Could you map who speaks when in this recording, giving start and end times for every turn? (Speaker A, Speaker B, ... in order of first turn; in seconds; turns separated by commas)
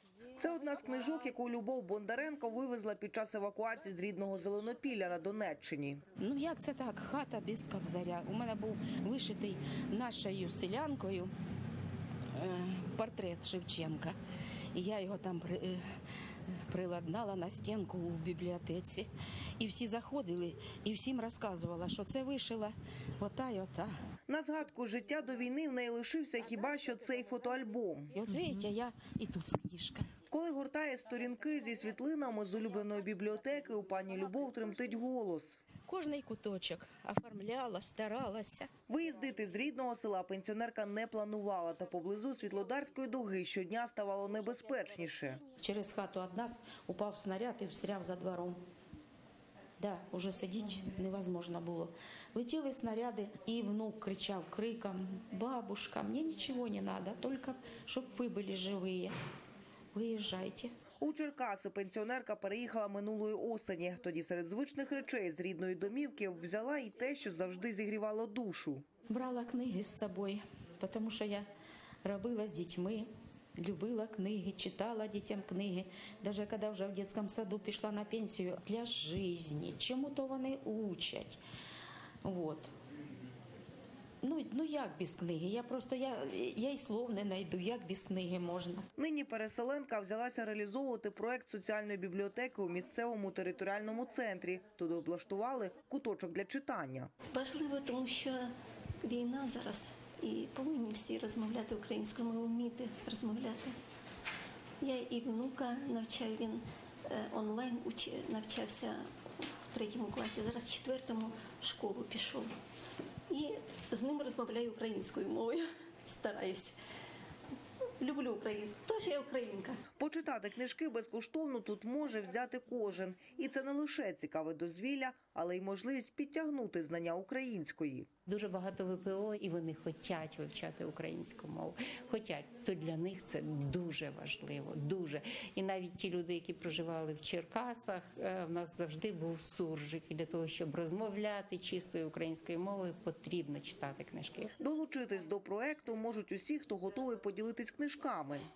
Speaker A: 0.4-6.0, Speaker B: 6.2-11.3, Speaker B: 12.3-14.1, Speaker B: 14.7-15.8, Speaker B: 16.5-23.9, Speaker A: 24.3-28.1, Speaker B: 28.1-30.1, Speaker A: 30.3-35.6, Speaker B: 35.9-38.7, Speaker A: 38.9-45.4, Speaker B: 45.6-48.6, Speaker B: 49.8-59.1, Speaker B: 59.9-60.7, Speaker A: 61.0-68.8, Speaker B: 69.1-71.5, Speaker B: 72.0-81.4, Speaker B: 82.2-82.7, Speaker B: 84.2-88.8, Speaker A: 89.0-97.1, Speaker C: 97.3-103.8, Speaker C: 104.8-112.5, Speaker C: 113.3-116.8, Speaker C: 118.0-119.8, Speaker A: 120.0-128.1, Speaker D: 128.3-144.5, Speaker A: 144.6-148.4